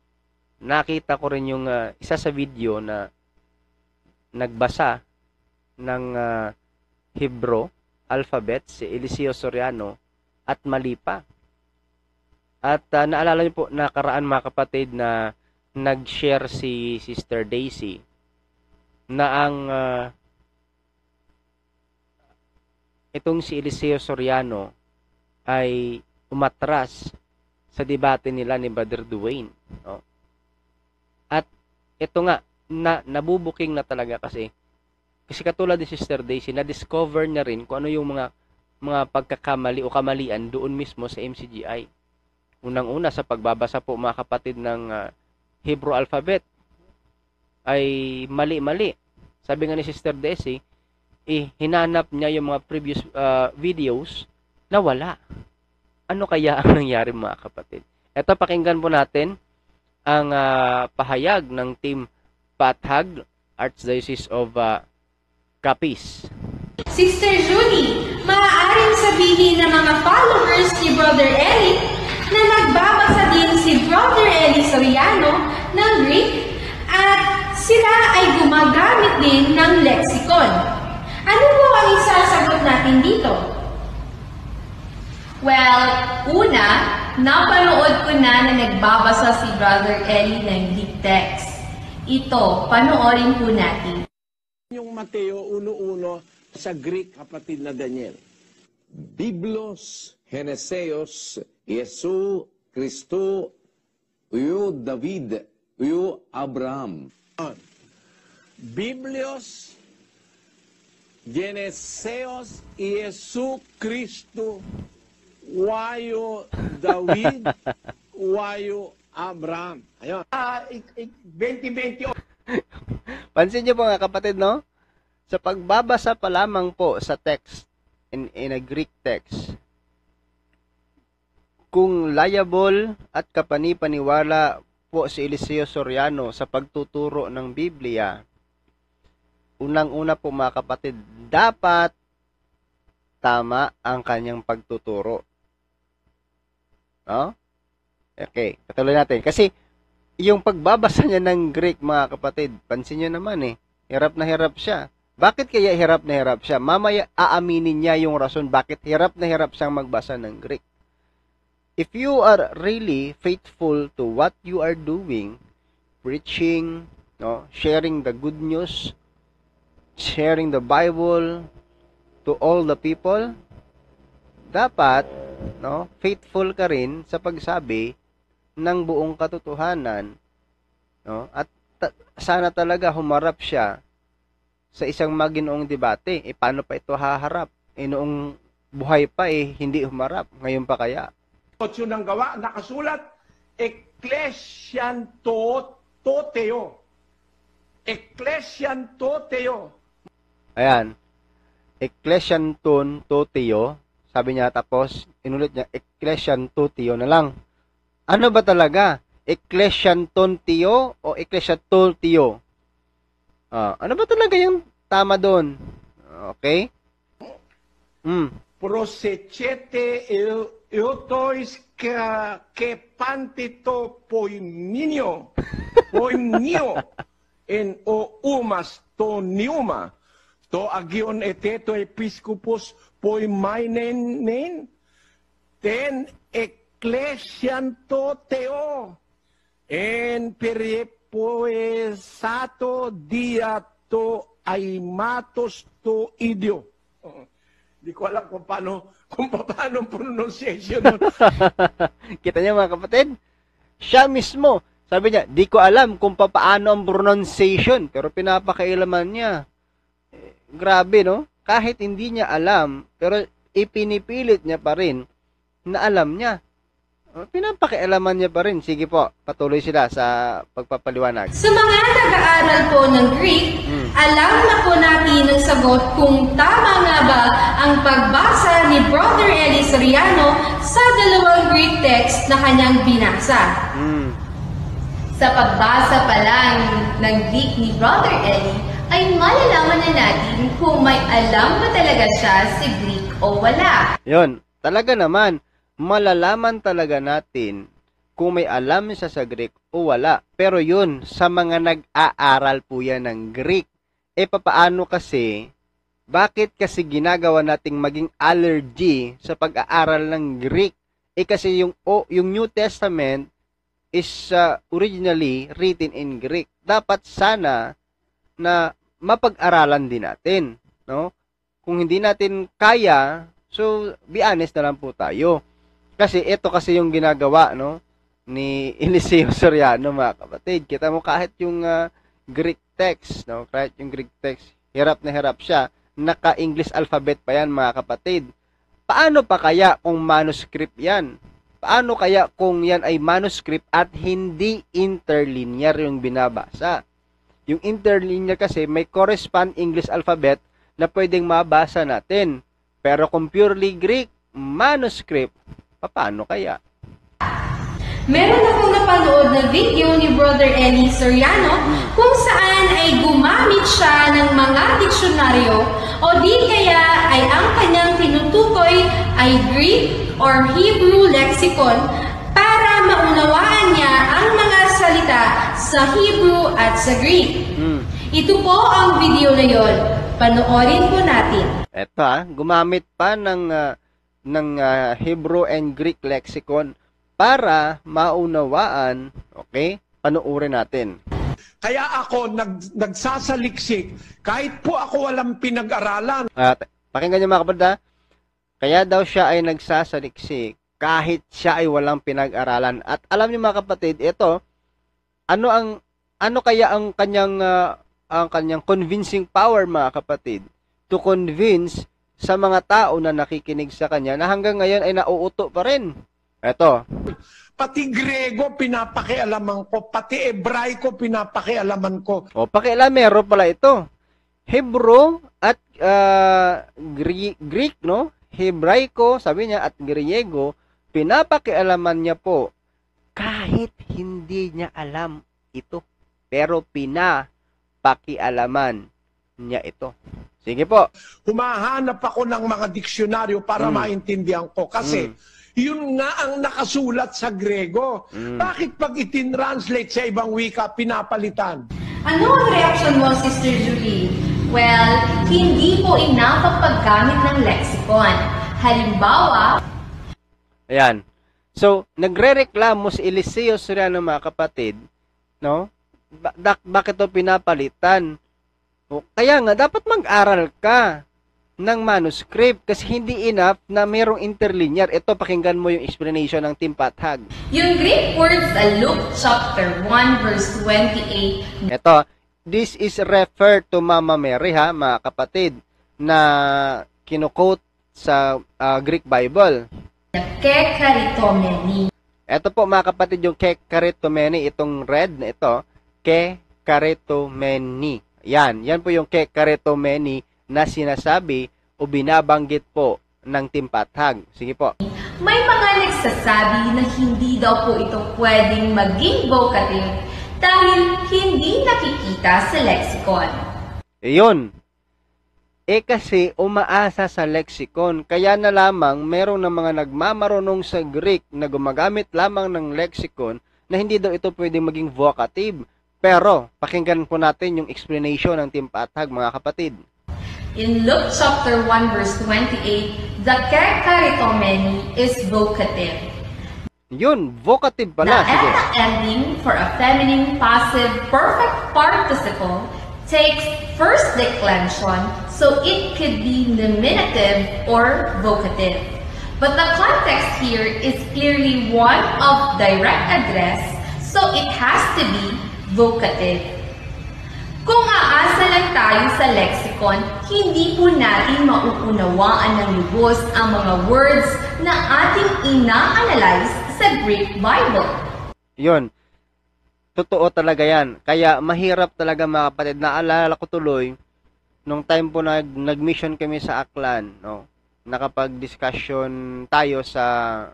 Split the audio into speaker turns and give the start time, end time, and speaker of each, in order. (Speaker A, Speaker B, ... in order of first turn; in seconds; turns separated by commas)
Speaker A: 0.7-3.0, Speaker A: 4.4-5.0, Speaker A: 5.8-6.5, Speaker A: 7.2-9.9, Speaker A: 10.5-11.2, Speaker A: 12.7-15.1, Speaker A: 15.8-18.0, Speaker A: 19.1-20.1, Speaker A: 23.1-24.7, Speaker A: 25.5-27.0, Speaker A: 27.7-30.0, Speaker A: 32.0-34.5, Speaker A: 35.3-38.3, Speaker A: 38.9-41.9, Speaker A: 42.6-45.0, Speaker A: 45.7-46.4, Speaker A: 47.7-48.9, Speaker A: 49.5-50.6, Speaker A: 51.3-55.2, Speaker A: 56.1-59.3, Speaker A: 60.1-62.0, Speaker A: 62.6-64.8, Speaker A: 65.6-66.3, Speaker B: 66.9-80.6, Speaker B: 81.3-83.4, Speaker C: 85.4-94.0, Speaker D: 94.7-98.2, Speaker E: 99.1-103.5, Speaker E: 104.3-107.1, Speaker D: 108.7-109.8, Speaker D: 111.3-114.6, Speaker D: 115.5-117.5, Speaker D: 118.2-122.1, Speaker A: 123.3-124.6, Speaker A: 125.3-129.4, Speaker A: 131.7-138.2, Speaker A: 139.6-141.9, Speaker A: 143.2-145.2, Speaker A: 148.2-149.5, Speaker A: 150.2-160.6, Speaker A: 161.8-165.4, Speaker A: 166.1-168.9, Speaker A: 170.0-171.5, Speaker A: 172.3-173.3, Speaker A: 174.5-175.1, Speaker A: 175.6-177.9, Speaker A: 178.6-180.1, Speaker A: 181.1-183.7, Speaker A: 184.8-188.2, Speaker A: 188.8-191.1, Speaker D: 191.6-193.0, Speaker D: 193.6-196.7, Speaker D: 197.9-199.7, Speaker A: 200.6-200.9, Speaker A: 201.8-207.3, Speaker A: 208.1-212.3, Speaker A: 213.6-215.5, Speaker A: 216.1-216.6, Speaker A: 218.1-218.3, Speaker D: 218.6-225.3, Speaker D: 225.9-226.9, Speaker D: 227.5-229.9, Speaker D: 230.5-234.7, Speaker D: 235.6-239.0, Speaker D: 239.7-247.2, Speaker D: 247.8-251.1, Speaker A: 251.2-253.1, Speaker A: 253.8-259.4, Speaker A: 260.6-265.0, Speaker A: 265.7-266.4, Speaker A: 267.2-271.3, Speaker B: 271.4-283.5, Speaker A: 283.7-284.2, Speaker C: 285.2-293.9, Speaker A: 294.1-297.6, Speaker A: 298.2-303.6, Speaker A: 304.2-305.3, Speaker A: 306.1-313.2, Speaker A: 314.0-317.6, Speaker A: 318.4-321.1, Speaker A: 321.7-325.4, Speaker A: 326.0-327.8, Speaker A: 328.3-331.8, Speaker A: 332.3-338.2, Speaker A: 338.9-341.1, Speaker A: 341.6-346.7, Speaker A: 347.5-352.3, Speaker A: 352.8-356.6, Speaker B: 358.1-371.8, Speaker A: 361.6-361.9, Speaker B: 372.3-377.3, Speaker A: 377.6-377.8, Speaker B: 378.1-381.6, Speaker A: 381.8-383.6, Speaker A: 384.3-386.7, Speaker A: 387.2-390.9, Speaker D: 391.6-396.3, Speaker A: 396.4-397.7, Speaker A: 398.6-404.3, Speaker A: 405.3-405.7, Speaker A: 406.2-415.9, Speaker A: 416.5-416.8, Speaker D: 417.6-422.2, Speaker A: 422.4-423.8, Speaker A: 424.5-432.4, Speaker A: 433.2-437.2, Speaker A: 437.9-438.8, Speaker A: 439.4-439.9, Speaker A: 440.4-440.9, Speaker D: 441.3-451.6, Speaker A: 443.6-443.9, Speaker A: 444.8-445.1, Speaker A: 448.2-448.5, Speaker B: 452.1-454.2, Speaker C: 454.5-459.5, Speaker A: 460.7-461.0, Speaker A: 461.6-464.8, Speaker A: 466.3-468.1, Speaker A: 468.9-470.8, Speaker A: 471.6-477.3, Speaker C: 477.5-481.7, Speaker A: 481.7-485.5, Speaker A: 486.1-489.6, Speaker C: 490.1-491.9, Speaker A: 492.3-504.7, Speaker C: 504.9-513.4, Speaker A: 514.1-514.5, Speaker A: 515.7-529.8, Speaker C: 530.6-536.0, Speaker A: 537.0-538.6, Speaker C: 538.0-556.5, Speaker C: 557.7-568.0, Speaker A: 570.0-573.9, Speaker A: 574.7-580.1